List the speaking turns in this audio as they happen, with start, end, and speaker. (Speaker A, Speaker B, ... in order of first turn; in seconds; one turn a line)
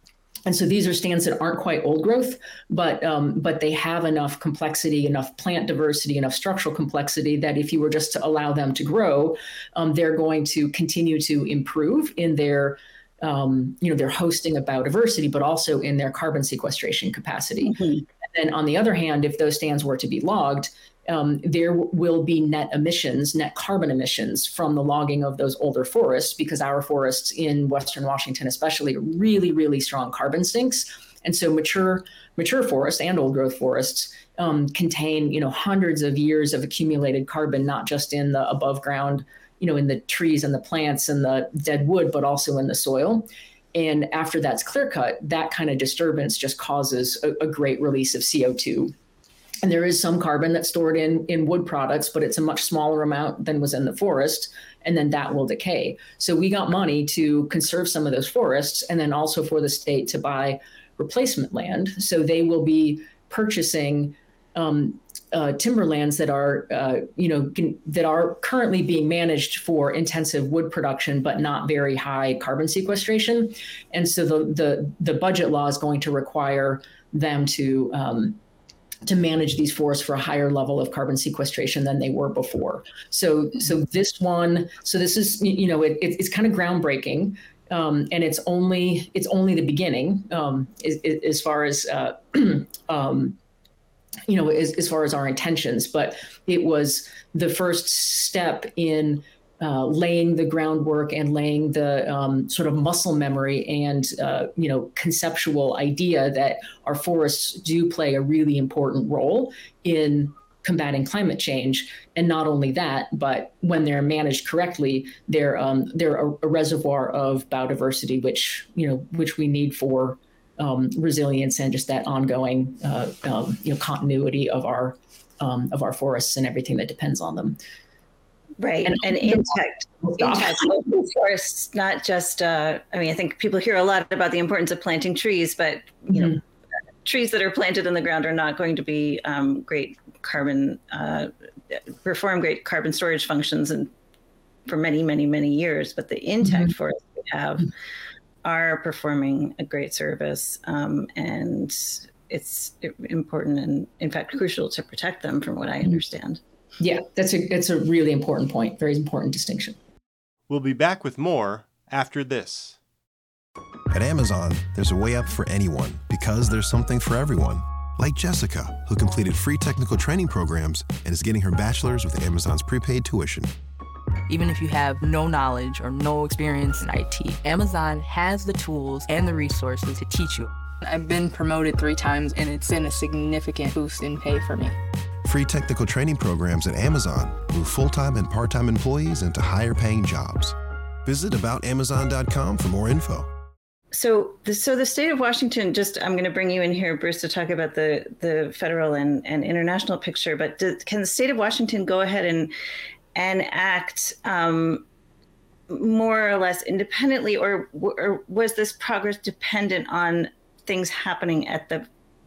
Speaker A: 0.5-48.9
Speaker A: 49.6-78.4
Speaker A: 79.0-93.4
Speaker A: 94.3-127.6
Speaker B: 128.6-136.4
Speaker A: 128.8-130.6
Speaker B: 137.0-143.9
Speaker B: 144.7-147.7
Speaker B: 148.4-156.4
Speaker A: 156.8-159.8
Speaker C: 160.5-162.8
Speaker D: 163.9-173.5
Speaker E: 174.3-184.7
Speaker D: 185.2-193.3
Speaker B: 193.9-202.5
Speaker B: 203.1-204.8
Speaker B: 205.7-211.9